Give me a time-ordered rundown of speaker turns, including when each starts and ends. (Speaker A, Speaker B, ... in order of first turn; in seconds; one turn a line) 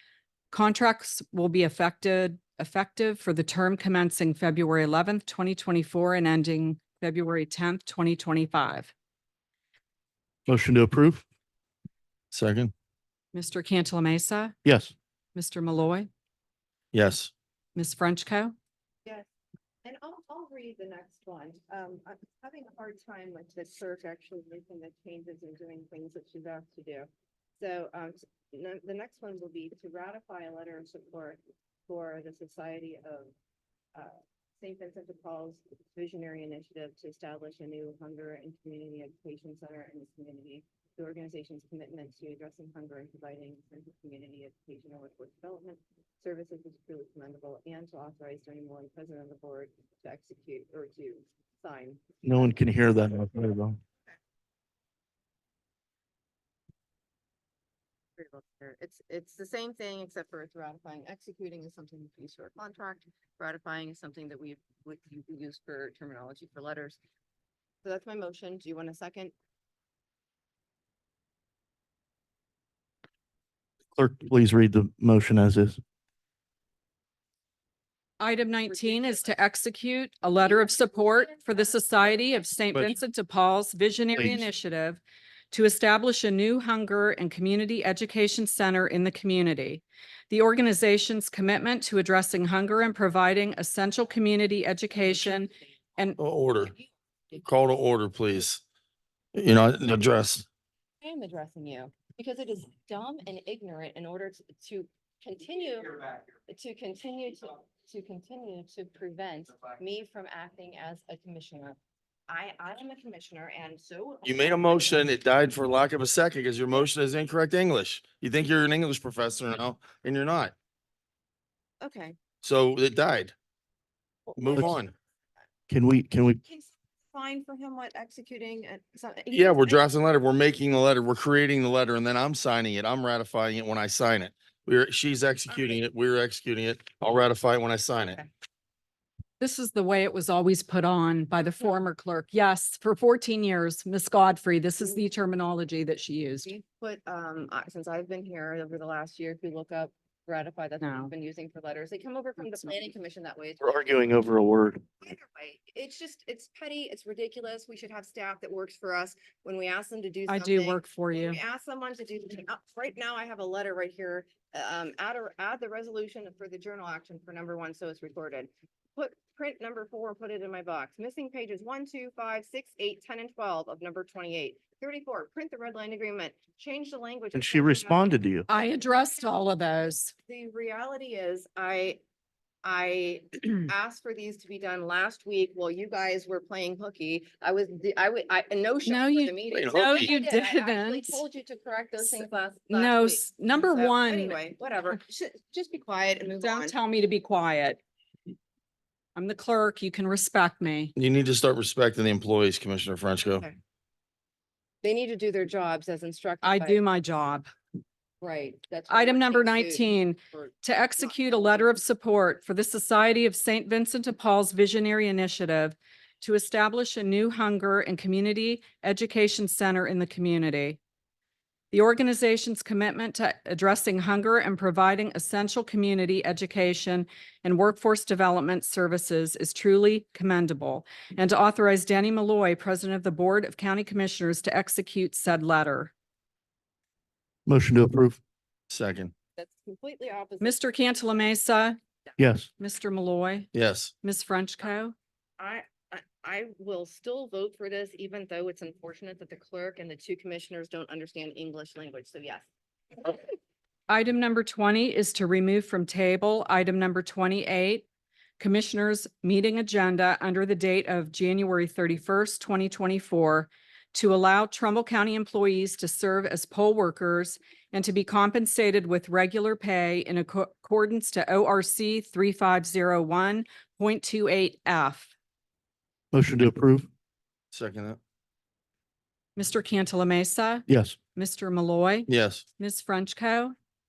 Speaker A: 0.5-8.9
Speaker B: 10.5-11.2
Speaker C: 12.3-12.7
Speaker A: 13.3-14.6
Speaker B: 14.7-14.9
Speaker A: 15.3-16.1
Speaker C: 16.9-17.3
Speaker A: 17.8-18.6
Speaker D: 19.8-27.1
Speaker D: 27.6-33.3
Speaker D: 33.9-52.0
Speaker B: 52.2-53.8
Speaker D: 58.2-67.0
Speaker D: 67.8-69.3
Speaker B: 74.0-75.8
Speaker A: 78.2-96.2
Speaker D: 78.8-79.3
Speaker D: 80.5-81.7
Speaker B: 84.2-84.5
Speaker C: 96.2-96.7
Speaker C: 97.4-98.6
Speaker C: 99.3-100.5
Speaker D: 101.0-115.1
Speaker C: 114.2-120.5
Speaker D: 121.8-122.2
Speaker C: 122.4-123.3
Speaker D: 124.3-124.9
Speaker C: 124.4-124.9
Speaker B: 125.7-126.4
Speaker D: 126.5-129.8
Speaker C: 129.3-138.2
Speaker D: 138.0-138.3
Speaker A: 139.4-146.5
Speaker D: 146.4-153.6
Speaker A: 150.8-151.1
Speaker B: 153.6-154.8
Speaker D: 155.0-178.6
Speaker A: 160.3-161.4
Speaker B: 177.3-178.5
Speaker A: 178.5-180.1
Speaker D: 180.3-182.0
Speaker D: 182.6-196.8
Speaker A: 188.9-191.2
Speaker C: 189.5-190.1
Speaker A: 192.0-194.4
Speaker A: 196.4-197.8
Speaker A: 199.2-200.9
Speaker C: 201.0-203.4
Speaker D: 204.8-206.8
Speaker A: 206.4-207.5
Speaker D: 208.2-211.7
Speaker A: 208.9-220.8
Speaker A: 221.7-235.9
Speaker B: 237.5-238.2
Speaker C: 238.7-239.1
Speaker D: 239.4-240.6
Speaker A: 240.4-241.8
Speaker B: 242.2-242.5
Speaker A: 242.6-243.5
Speaker C: 243.5-243.9
Speaker A: 244.0-244.9
Speaker D: 245.4-252.4
Speaker A: 253.9-257.9
Speaker A: 258.4-275.1
Speaker B: 276.1-276.9
Speaker C: 277.5-278.0
Speaker A: 279.4-283.5
Speaker B: 280.7-281.0
Speaker C: 282.1-282.4